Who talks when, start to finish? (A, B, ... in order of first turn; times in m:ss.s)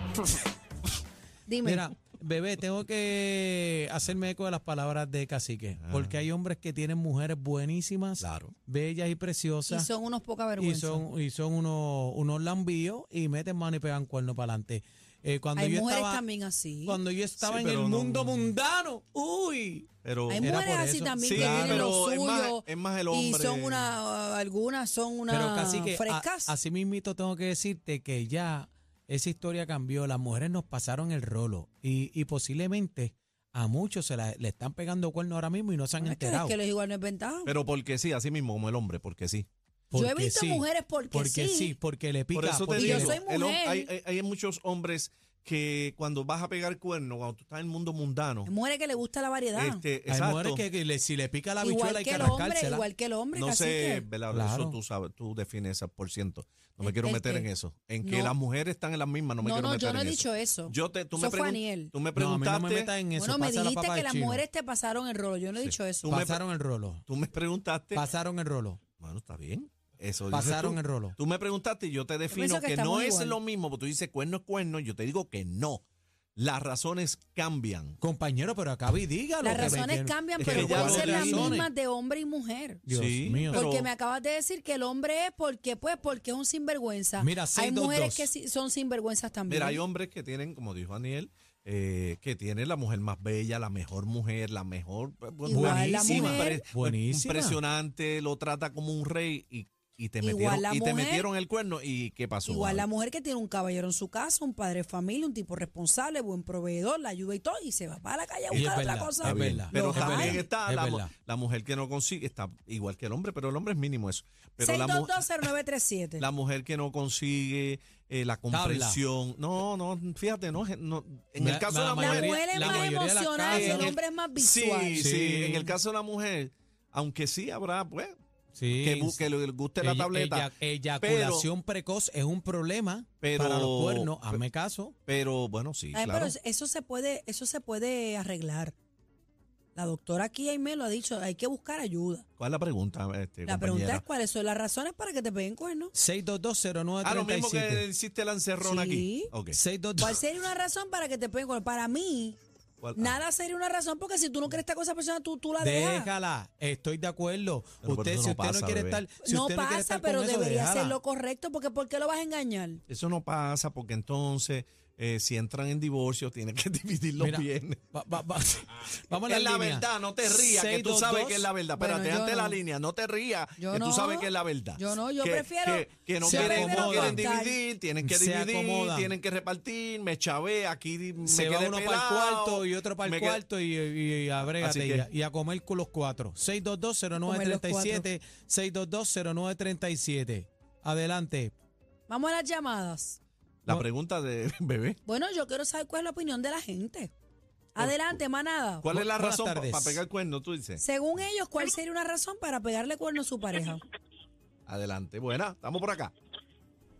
0:01.5-0:01.9 A
0:01.6-0:09.9 B
0:05.8-0:06.2 C
0:08.2-0:08.6 C
0:09.7-0:11.0 A
0:10.6-0:16.2 B
0:15.6-0:17.0 A
0:16.8-0:22.0 B
0:17.4-0:18.5 C
0:20.0-0:20.5 C
0:20.3-0:26.5 A
0:21.2-0:23.9 C
0:25.3-0:36.6 B
0:36.0-0:37.5 A
0:37.4-0:39.5 C
0:39.9-0:43.2 B
0:39.9-0:41.8 A
0:42.3-0:48.5 C
0:42.7-0:43.9 A
0:48.4-0:49.8 A
0:49.5-0:50.6 C
0:50.1-0:52.9 B
0:51.6-0:54.1 A
0:53.3-1:02.9 C
0:54.3-0:54.8 B
0:56.8-0:57.5 A
0:58.0-0:58.3 A
0:59.4-1:01.9 A
1:02.1-1:04.4 B
1:03.2-1:06.3 A
1:05.6-1:06.4 C
1:06.1-1:07.0 B
1:07.0-1:08.0 C
1:07.9-1:08.8 B
1:09.0-1:15.8 C
1:10.3-1:11.2 B
1:12.3-1:13.4 A
1:16.4-1:18.0 C
1:18.0-1:21.7 B
1:19.4-1:22.8 A
1:20.4-1:21.7 C
1:22.8-1:23.6 B
1:22.9-1:23.9 C
1:23.5-1:29.8 A
1:27.2-1:28.3 B
1:29.5-1:42.8 C
1:35.4-1:36.6 A
1:35.5-1:37.6 B
1:40.2-1:41.3 A
1:42.4-1:50.5 A
1:48.5-1:51.1 B
1:48.5-1:55.2 C
1:54.6-1:56.3 A
1:56.2-2:03.0 C
1:58.5-1:59.0 B
2:01.4-2:04.0 B
2:02.0-2:05.1 A
2:03.5-2:08.2 C
2:04.9-2:05.7 B
2:08.5-2:15.0 B
2:08.7-2:11.5 C
2:13.2-2:14.4 C
2:15.0-2:16.3 C
2:15.9-2:18.7 A
2:19.7-2:22.2 A
2:22.4-2:24.0 C
2:23.4-2:25.9 A
2:25.9-2:27.9 B
2:27.0-2:29.6 C
2:28.6-2:29.3 A
2:29.5-2:30.2 B
2:30.0-2:32.4 A
2:32.8-2:33.2 C
2:33.0-2:36.1 A
2:35.6-2:41.0 B
2:37.8-2:39.0 C
2:39.2-2:42.8 A
2:42.9-2:47.8 C
2:47.2-2:51.5 B
2:49.2-3:03.4 C
2:51.8-2:52.6 A
2:53.6-2:57.6 A
2:56.2-2:57.4 B
2:58.0-2:59.2 B
3:01.2-3:11.5 B
3:04.4-3:05.1 C
3:07.2-3:08.1 A
3:12.1-3:13.2 A
3:13.6-3:15.0 C
3:15.0-3:17.1 A
3:17.7-3:18.9 A
3:17.8-3:18.2 C
3:18.8-3:20.8 C
3:18.9-3:20.0 B
3:20.8-3:23.8 A
3:24.6-3:26.1 C